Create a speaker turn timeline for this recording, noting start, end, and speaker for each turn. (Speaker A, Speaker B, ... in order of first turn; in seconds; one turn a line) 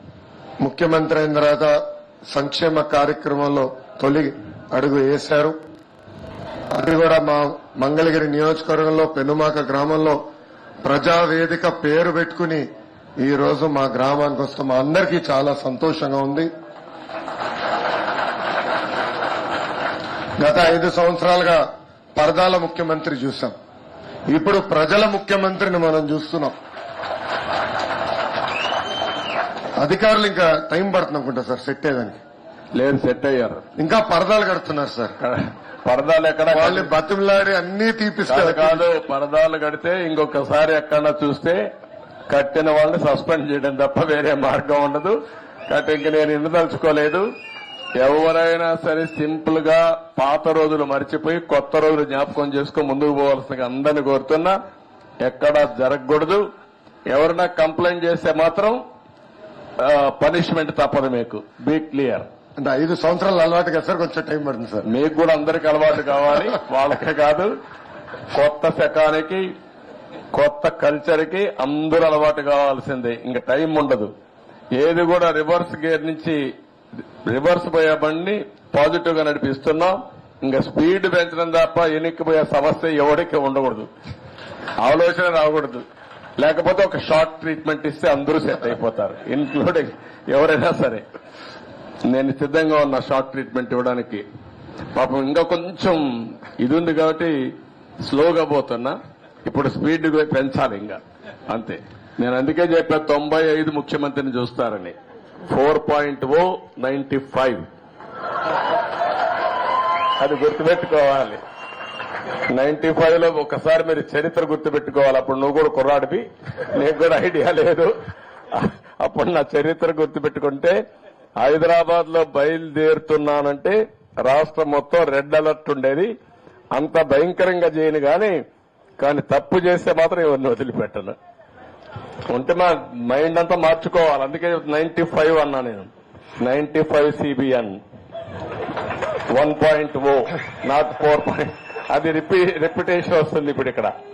Speaker A: 0.6-1.8
Speaker A: 2.3-5.5
Speaker A: 6.7-10.2
Speaker A: 10.8-12.7
Speaker A: 13.2-16.5
Speaker A: 20.4-21.6
Speaker A: 22.1-23.5
Speaker A: 24.3-26.6
Speaker A: 29.8-32.2
Speaker B: 32.7-33.6
Speaker A: 33.8-35.1
Speaker B: 35.2-36.9
Speaker A: 36.5-38.9
Speaker B: 38.3-41.7
Speaker B: 42.3-45.2
Speaker B: 45.7-47.2
Speaker B: 48.0-54.5
Speaker B: 55.2-56.5
Speaker B: 57.1-58.8
Speaker B: 59.8-62.3
Speaker A: 62.6-64.8
Speaker B: 64.9-67.5
Speaker B: 68.3-69.5
Speaker B: 70.3-74.1
Speaker B: 74.7-76.4
Speaker B: 77.3-83.9
Speaker B: 84.8-85.8
Speaker B: 86.4-91.0
Speaker B: 92.0-94.2
Speaker B: 94.9-97.4
Speaker B: 98.0-105.0
Speaker B: 105.5-107.6
Speaker B: 110.2-111.4
Speaker B: 112.5-117.9
Speaker B: 118.5-120.8
Speaker B: 121.4-126.1
Speaker B: 126.7-128.4
Speaker B: 129.0-131.2
Speaker B: 132.3-135.9
Speaker B: 136.4-137.8
Speaker B: 139.3-143.9